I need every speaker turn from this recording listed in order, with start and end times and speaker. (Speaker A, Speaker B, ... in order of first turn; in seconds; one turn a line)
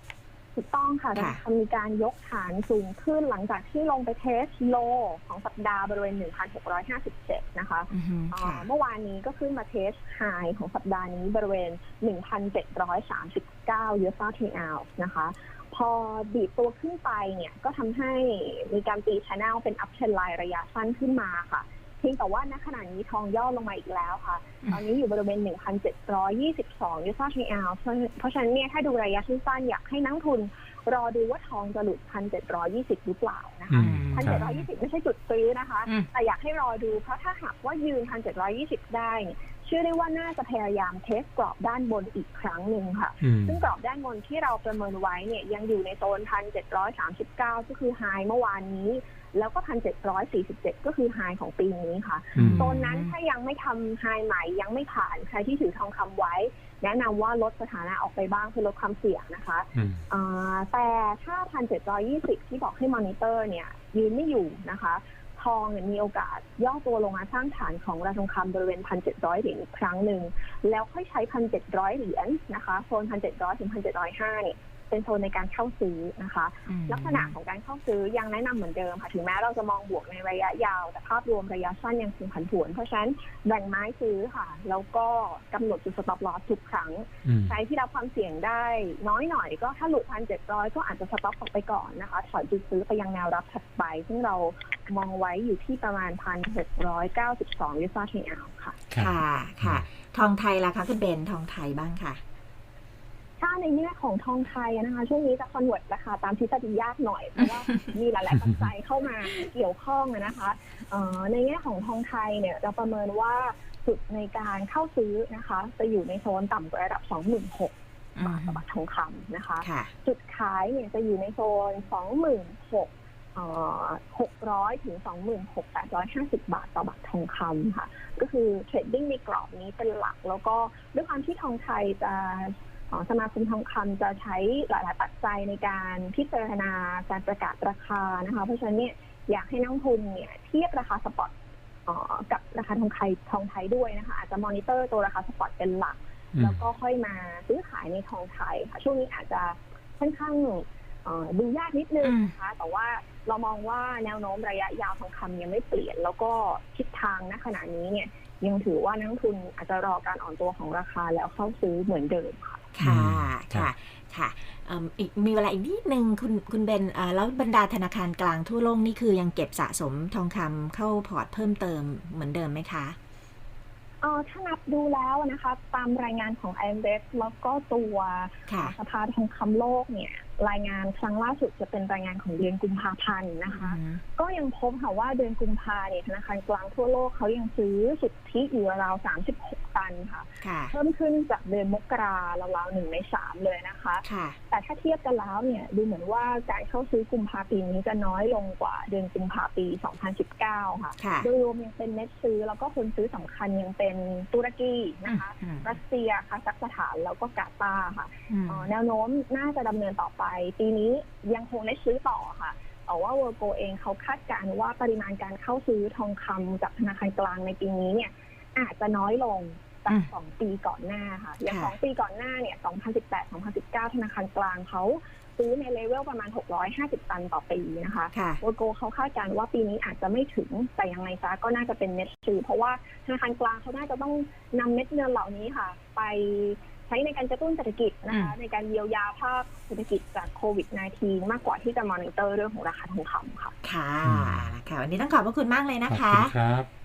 Speaker A: 0.6-98.8
Speaker B: 1.1-1.4
Speaker B: 7.9-8.7
Speaker C: 33.7-34.5
Speaker B: 33.8-34.7
Speaker C: 43.2-43.7
Speaker C: 52.4-52.7
Speaker B: 52.4-53.1
Speaker C: 59.8-60.0
Speaker B: 76.7-77.4
Speaker C: 87.2-87.6
Speaker C: 98.9-99.9
Speaker B: 99.0-102.2
Speaker A: 103.4-141.3
Speaker B: 118.2-118.6
Speaker B: 119.6-119.9
Speaker A: 141.9-162.7
Speaker C: 146.4-146.6
Speaker B: 152.0-152.3
Speaker B: 162.7-173.0
Speaker C: 162.8-163.7
Speaker A: 174.0-243.6
Speaker B: 178.5-178.8
Speaker B: 183.5-184.0
Speaker B: 190.4-190.8
Speaker B: 194.0-194.4
Speaker B: 201.0-201.3
Speaker B: 205.1-205.7
Speaker B: 208.3-208.7
Speaker B: 221.5-221.8
Speaker B: 228.1-228.4
Speaker B: 238.1-238.3
Speaker B: 243.6-246.3
Speaker C: 244.0-244.5
Speaker C: 245.9-246.7